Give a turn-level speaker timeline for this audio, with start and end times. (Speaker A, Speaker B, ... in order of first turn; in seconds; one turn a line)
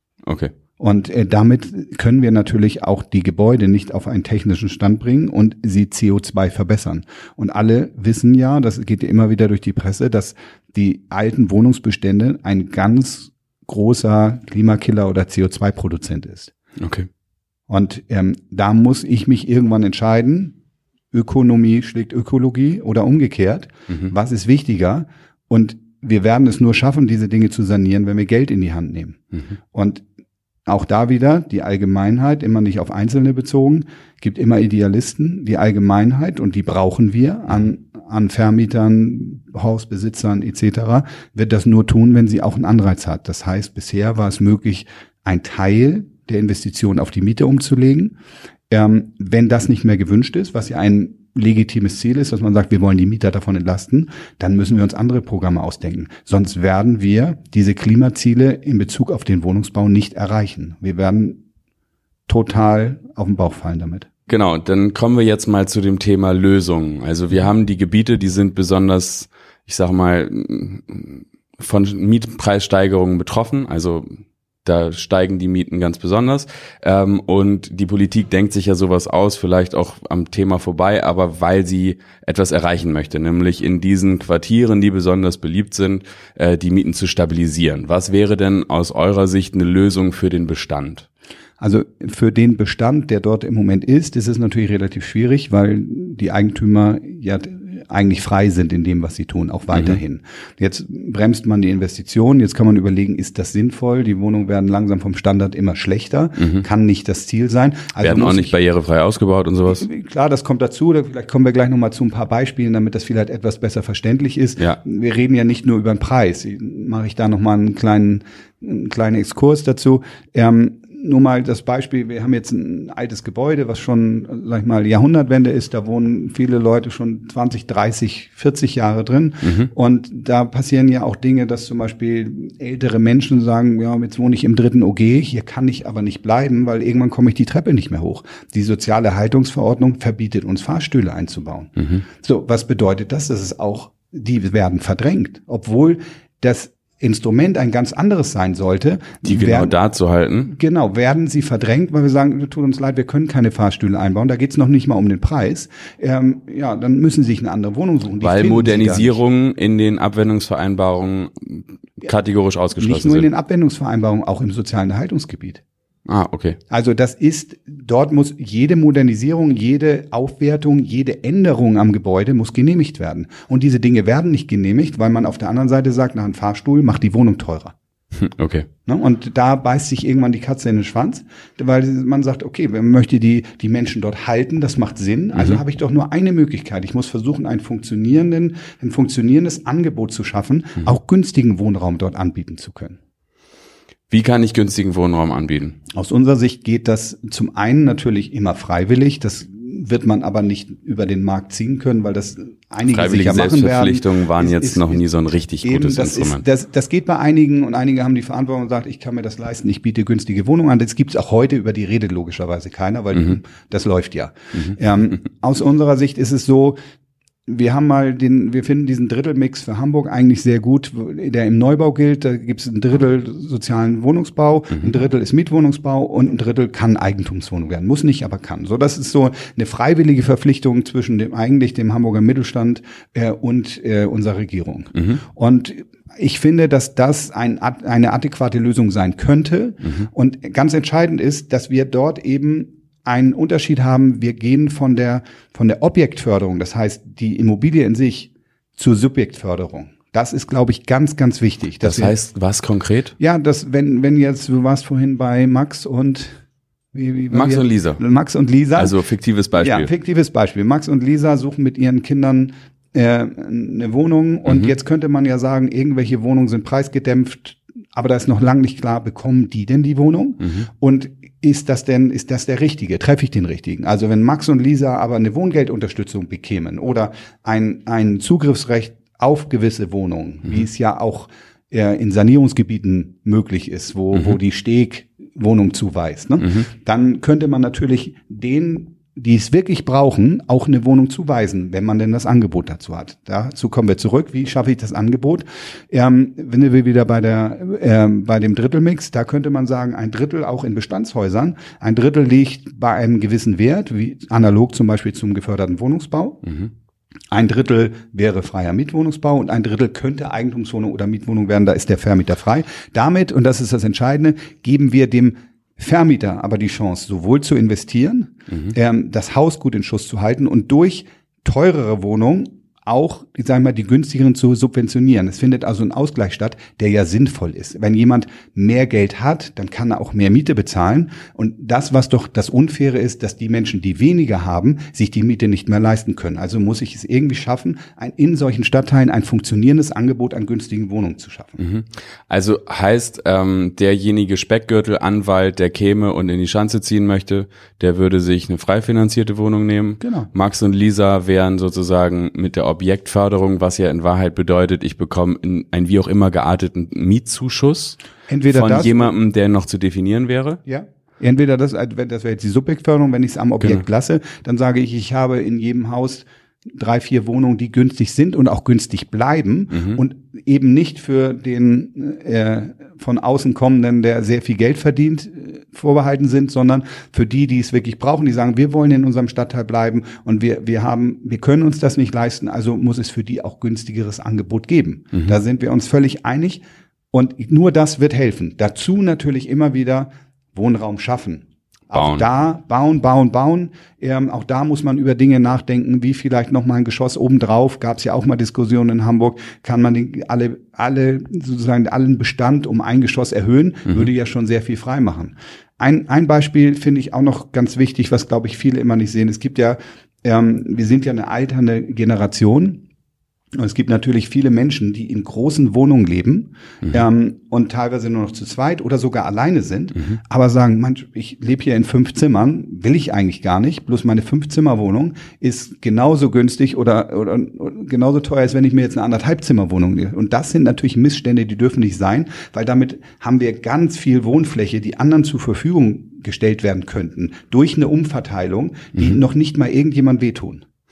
Speaker A: 0.2-0.5
Speaker B: 0.8-16.5
Speaker A: 16.8-17.1
Speaker B: 17.7-20.5
Speaker B: 21.1-30.0
Speaker B: 30.7-48.1
Speaker B: 48.7-61.4
Speaker B: 62.3-64.1
Speaker A: 64.3-91.1
Speaker B: 91.6-108.5
Speaker A: 99.7-100.0
Speaker A: 106.4-106.6
Speaker A: 108.0-109.8
Speaker B: 109.7-149.8
Speaker A: 129.4-129.7
Speaker A: 149.2-150.5
Speaker B: 150.5-159.2
Speaker A: 158.2-163.3
Speaker B: 162.8-165.6
Speaker A: 166.1-166.6
Speaker B: 166.7-177.7
Speaker A: 178.2-178.7
Speaker B: 178.8-193.0
Speaker A: 194.1-195.8
Speaker B: 195.9-205.0
Speaker A: 202.9-206.4
Speaker B: 205.6-216.8
Speaker B: 217.5-252.1
Speaker A: 251.8-253.1
Speaker B: 253.2-256.4
Speaker B: 256.9-258.9
Speaker A: 257.3-258.0
Speaker A: 258.8-259.9
Speaker B: 259.6-306.5
Speaker B: 307.3-341.6
Speaker A: 341.6-358.0
Speaker B: 350.0-350.3
Speaker B: 358.3-359.1
Speaker A: 358.5-360.6
Speaker B: 360.6-412.8
Speaker A: 369.7-370.0
Speaker A: 391.9-392.3
Speaker B: 413.5-440.6